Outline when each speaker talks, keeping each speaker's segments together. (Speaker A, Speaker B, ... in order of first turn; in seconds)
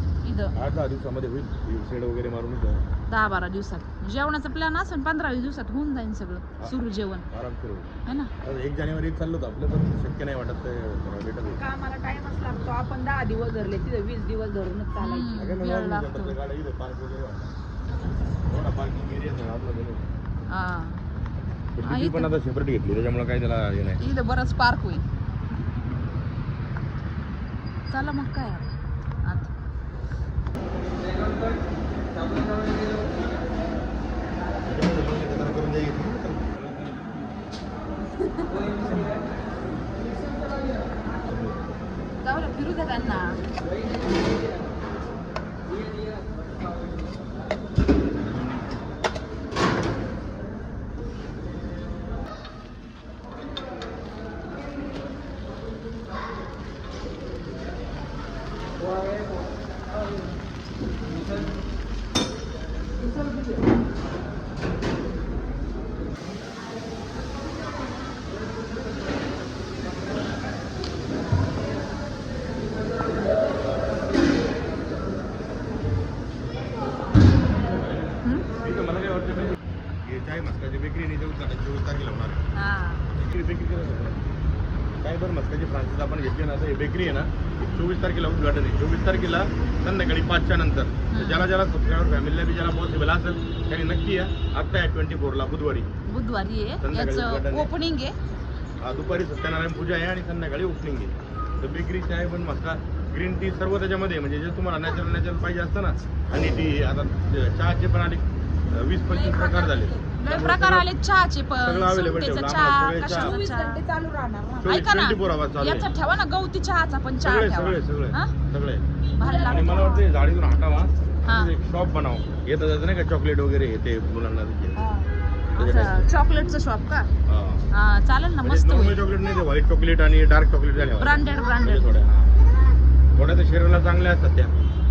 Speaker A: 0.2-0.5, 3.1-7.3, 8.1-8.3, 15.0-16.4, 20.5-21.0, 21.8-22.3, 24.0-25.0, 27.9-28.7, 29.2-29.5, 42.2-43.4, 78.2-78.5, 82.5-83.1, 91.1-91.5, 96.1-98.2, 110.2-113.8, 114.7-118.3, 119.2-120.0, 121.3-121.5, 125.5-127.1, 127.7-129.1, 131.0-131.9
Speaker B: 0.5-2.8, 7.3-7.9, 8.4-11.6, 15.3-17.5, 18.5-20.1, 21.8-24.0, 34.6-37.0, 41.2-41.6, 48.2-48.8, 77.6-82.4, 83.1-84.2, 85.0-95.9, 96.8-97.7, 98.8-110.9, 111.6-113.3, 114.6-115.9, 117.2-118.8, 119.4-124.8, 125.5-126.1, 127.2-127.7, 128.4-132.4, 133.2-134.5
Speaker C: 11.6-15.3, 109.0-110.1, 113.2-114.8, 119.2-119.6